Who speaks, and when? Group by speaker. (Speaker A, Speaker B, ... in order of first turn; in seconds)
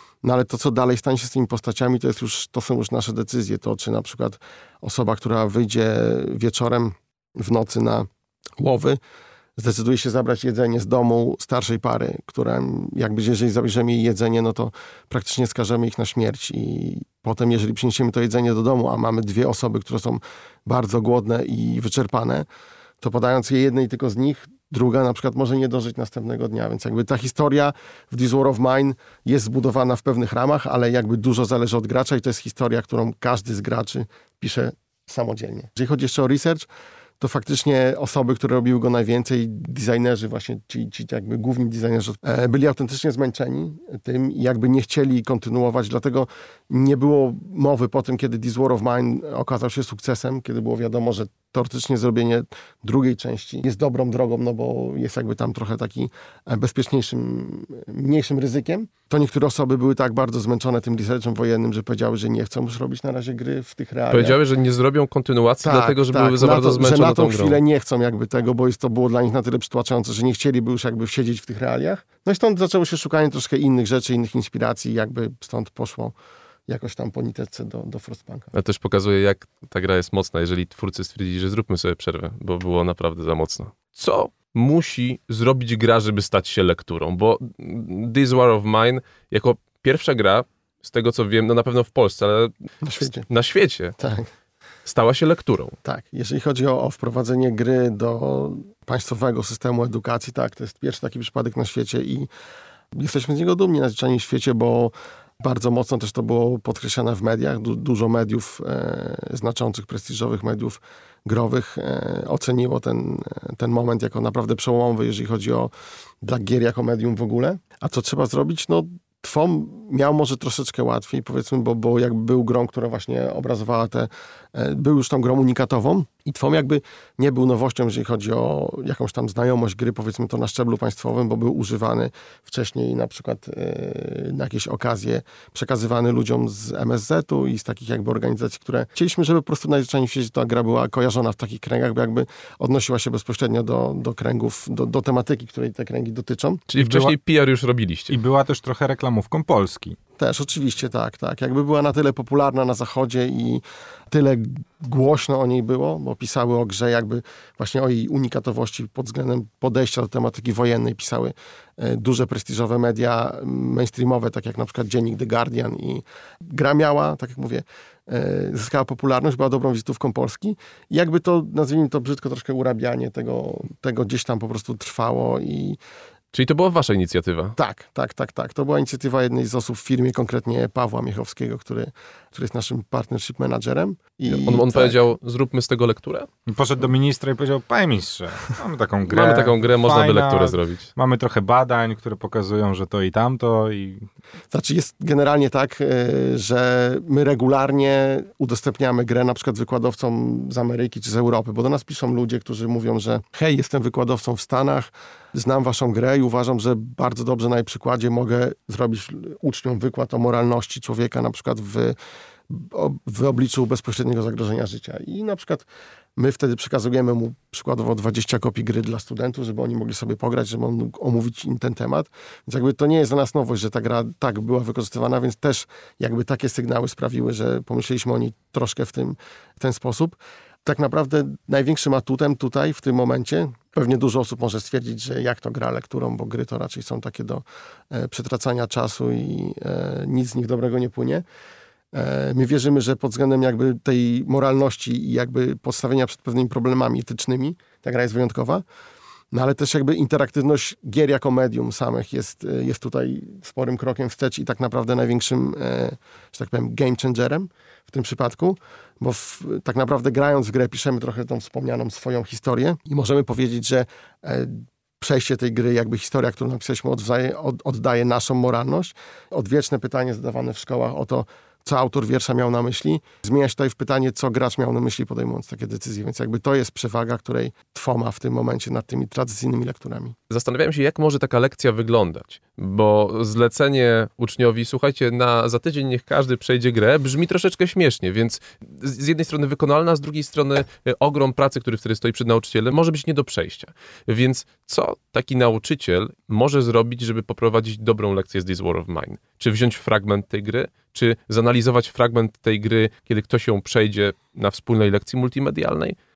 Speaker A: 0.2-9.0, 9.6-22.4, 23.0-36.6, 37.2-64.4, 65.6-76.1, 76.7-78.5, 92.8-93.3, 94.0-94.3, 95.8-102.3, 102.9-115.7, 116.2-146.7, 150.2-175.8, 177.6-185.0, 194.5-211.9, 212.5-241.2, 241.9-248.6, 249.3-280.1
Speaker B: 64.1-67.6, 78.5-92.6, 93.3-93.9, 94.8-95.8, 146.7-148.2, 176.3-177.6, 184.3-186.3, 189.0-190.9, 280.3-305.9
Speaker C: 146.8-147.1, 148.1-150.0, 186.5-194.1